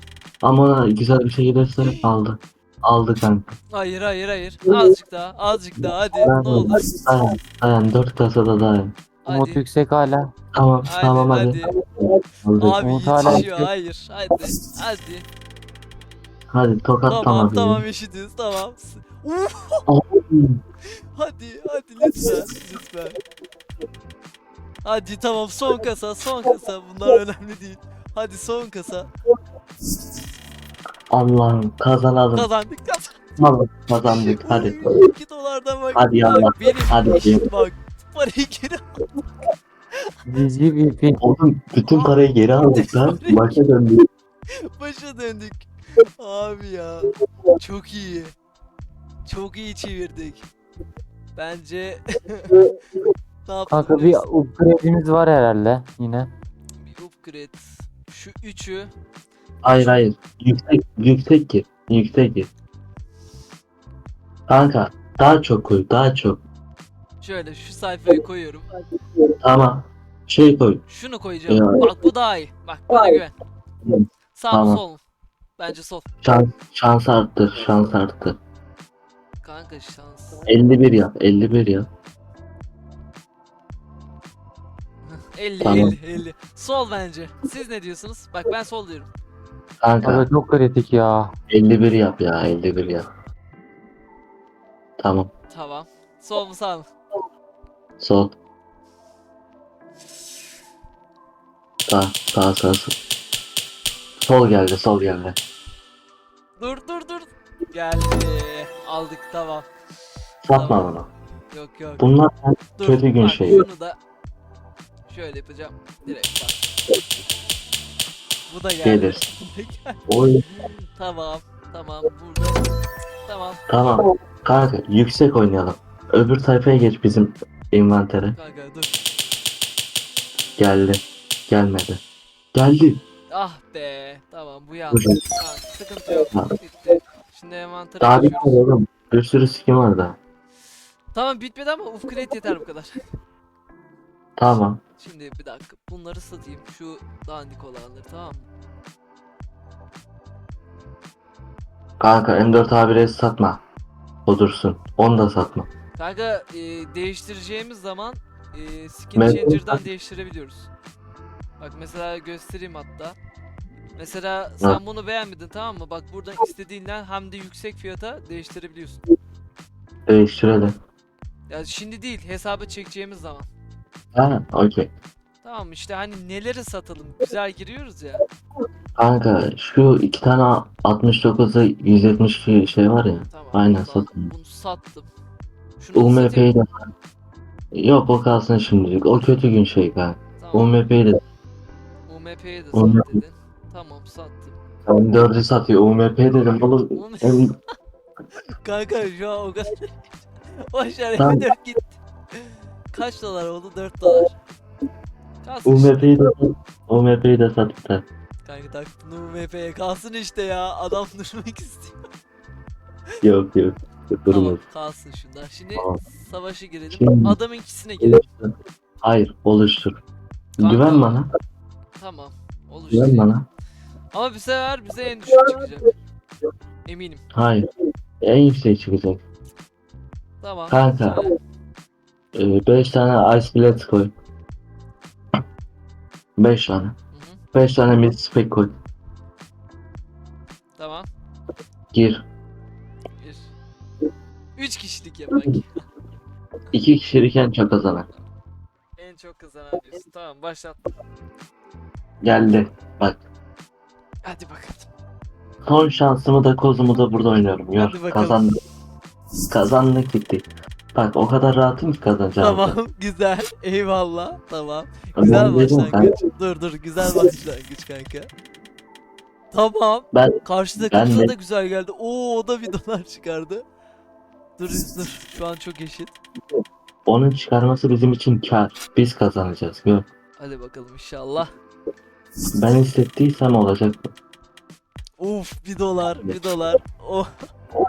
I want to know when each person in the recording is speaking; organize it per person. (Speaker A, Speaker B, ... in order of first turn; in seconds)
Speaker A: 0.4-3.5, 5.8-8.9, 10.5-11.6, 12.4-13.5, 16.5-17.9, 19.9-20.6, 31.1-32.5, 33.4-35.0, 36.0-37.5, 41.2-44.0, 59.6-62.5, 64.5-66.4, 69.4-70.8, 71.5-71.8, 73.8-74.8, 76.2-78.4, 80.5-81.9, 85.6-86.0, 89.8-90.3, 91.5-93.1, 95.0-95.3, 98.0-98.3, 101.9-103.0, 104.2-105.4, 110.4-111.1, 112.0-113.6, 118.8-119.2, 120.1-120.5, 123.7-128.4, 130.6-132.0, 132.5-133.0, 134.9-135.2, 138.0-140.2, 144.4-144.8, 152.0-153.6, 154.3-155.7, 159.2-159.8, 170.1-170.8, 174.1-174.9, 179.0-184.3, 185.9-186.9, 187.7-191.2, 192.7-193.2, 194.9-197.6, 201.2-201.4, 205.7-208.1, 213.2-214.6, 216.9-217.4, 218.0-220.0, 220.6-221.3, 222.9-223.5, 227.3-227.7, 228.2-229.2, 230.7-231.3, 232.3-234.1, 236.4-236.9, 237.5-238.7, 241.9-242.2, 246.7-248.1, 252.2-253.2, 255.7-258.5, 259.5-262.8, 265.2-266.1, 270.1-271.3, 277.1-280.1, 282.6-284.1, 286.1-286.4
Speaker B: 1.8-2.1, 3.7-6.8, 9.2-9.7, 10.8-11.7, 12.6-15.3, 17.1-19.9, 21.1-23.2, 24.8-29.1, 32.3-33.2, 34.1-38.8, 41.9-43.5, 44.8-48.3, 49.3-50.4, 51.4-52.6, 53.5-54.3, 56.8-58.9, 59.7-60.0, 67.2-68.7, 70.9-73.3, 74.3-75.0, 75.6-76.1, 79.4-80.4, 85.0-89.1, 95.5-96.9, 106.6-109.7, 110.5-110.9, 111.5-112.1, 112.8-114.0, 115.1-116.7, 118.5-122.6, 123.2-123.7, 128.3-128.9, 133.3-138.6, 141.1-143.0, 145.0-148.5, 155.9-160.7, 161.6-163.2, 164.0-169.0, 171.5-173.5, 175.4-178.2, 183.3-185.1, 185.8-186.5, 190.4-190.7, 192.1-194.6, 196.9-197.5, 198.6-204.3, 205.4-206.1, 208.4-212.0, 214.3-218.3, 220.6-221.2, 221.9-223.3, 224.1-226.0, 226.8-227.2, 230.4-231.4, 237.1-237.4, 240.8-241.1, 243.2-243.5, 244.6-245.9, 249.0-250.8, 254.2-254.9, 257.8-258.4, 262.4-268.3, 269.5-273.6, 274.6-276.2, 280.4-281.5, 285.2-287.3
Speaker C: 9.3-10.3, 12.8-13.7, 40.3-41.2, 53.7-56.3, 90.0-91.3